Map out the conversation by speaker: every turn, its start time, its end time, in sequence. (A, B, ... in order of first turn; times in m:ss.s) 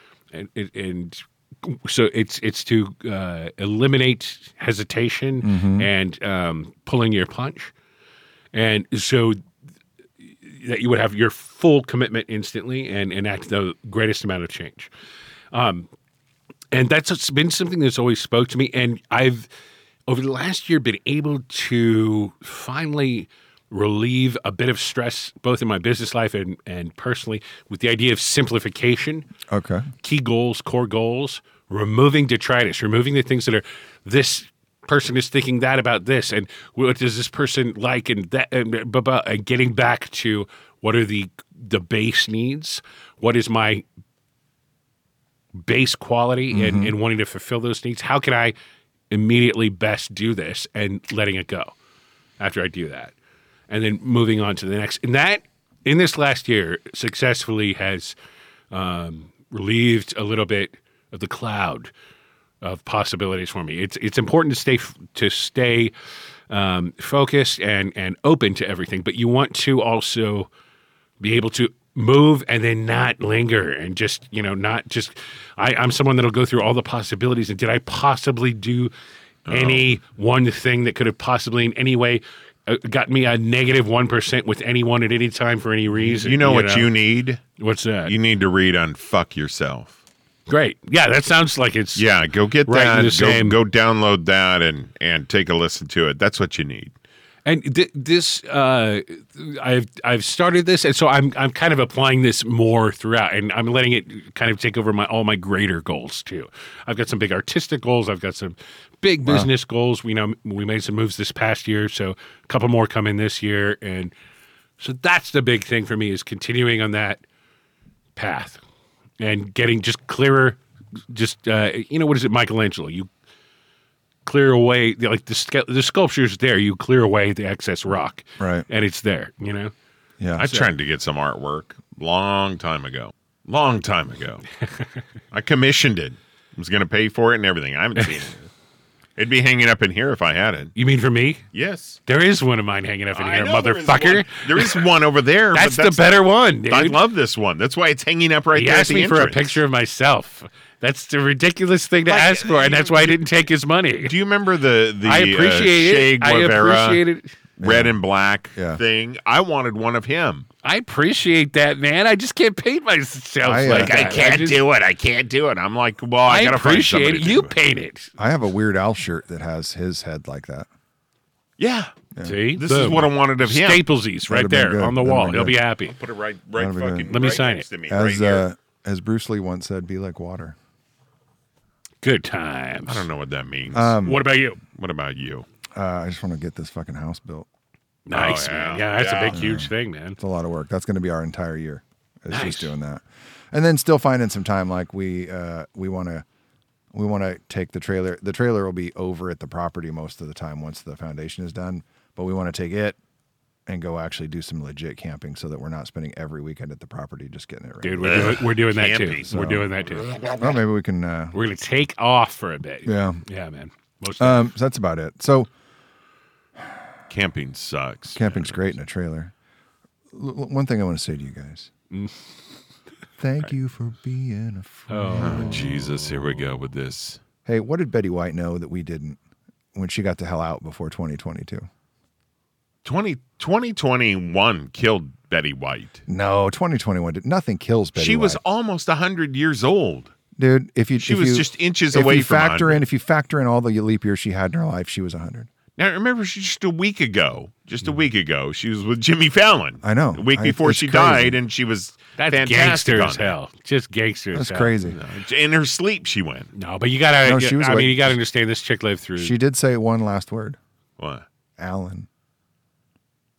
0:00.3-0:07.7 A
0:05.4-0:05.9 B
0:08.5-0:09.4 A
0:10.3-0:14.9 A
0:15.5-0:15.9 A
0:16.7-0:19.5 A
0:20.1-0:29.3 A
0:29.5-0:29.9 B
0:30.0-0:43.8 A
0:45.6-0:48.5 A
0:46.5-0:46.9 B
0:49.1-0:51.8 A
0:52.4-0:53.1 A
0:53.7-0:58.2 A
0:58.7-1:01.9 A
1:02.6-1:05.9 A
1:06.5-1:10.5 A
1:11.2-1:18.9 A
1:19.5-1:20.0 C
1:19.5-1:26.9 A
1:26.0-1:27.4 C
1:27.6-1:28.1 A
1:28.1-1:30.0 C
1:30.5-1:32.0 A
1:32.0-1:36.9 C
1:32.7-1:33.6 A
1:37.5-1:54.1 A
1:54.8-1:57.2 A
1:58.2-1:58.6 A
1:59.2-2:03.1 A
2:04.2-2:09.7 A
2:08.4-2:08.6 B
2:10.2-2:10.5 B
2:10.4-2:10.7 A
2:10.4-2:14.4 C
2:15.3-2:18.5 C
2:19.2-2:20.7 C
2:20.8-2:21.4 A
2:21.5-2:22.0 C
2:22.1-2:24.9 A
2:23.1-2:26.2 C
2:25.5-2:27.0 A
2:26.7-2:29.6 C
2:28.5-2:34.1 A
2:32.1-2:33.2 C
2:34.0-2:37.0 C
2:35.0-2:37.4 A
2:37.6-2:40.5 C
2:37.6-2:38.0 B
2:38.6-2:38.8 B
2:40.6-2:44.6 A
2:43.4-2:44.0 B
2:43.7-2:47.5 C
2:46.3-2:48.1 A
2:48.2-2:50.7 B
2:51.6-2:52.0 C
2:52.2-2:56.0 A
2:52.5-2:53.8 C
2:54.3-2:55.6 B
2:55.9-2:58.5 C
2:56.6-2:57.1 B
2:57.1-2:57.7 A
2:57.9-3:00.6 B
3:02.0-3:03.0 A
3:02.9-3:04.0 C
3:03.7-3:04.2 B
3:04.0-3:04.6 A
3:04.7-3:05.5 C
3:05.8-3:07.5 B
3:08.1-3:10.2 A
3:08.1-3:09.4 C
3:09.3-3:16.2 B
3:12.3-3:12.7 A
3:16.9-3:23.0 B
3:23.7-3:28.4 B
3:27.8-3:30.3 A
3:28.0-3:29.4 C
3:29.3-3:29.7 B
3:30.4-3:31.4 B
3:31.3-3:34.5 A
3:32.9-3:33.2 B
3:34.2-3:35.5 B
3:37.1-3:38.7 C
3:38.2-3:39.3 B
3:40.1-3:41.7 B
3:41.9-3:42.2 A
3:43.2-3:45.8 B
3:44.9-3:46.2 A
3:45.2-3:47.2 C
3:47.5-3:49.2 B
3:49.7-3:51.7 B
3:52.8-3:56.0 C
3:56.1-3:58.4 B
3:58.0-4:00.1 C
4:00.4-4:05.5 B
4:01.0-4:02.8 C
4:05.8-4:13.4 C
4:09.8-4:11.4 B
4:12.2-4:14.8 A
4:14.3-4:15.0 B
4:14.8-4:16.5 C
4:16.5-4:19.4 A
4:17.2-4:18.2 B
4:19.2-4:20.6 B
4:21.0-4:21.3 C
4:21.6-4:22.1 B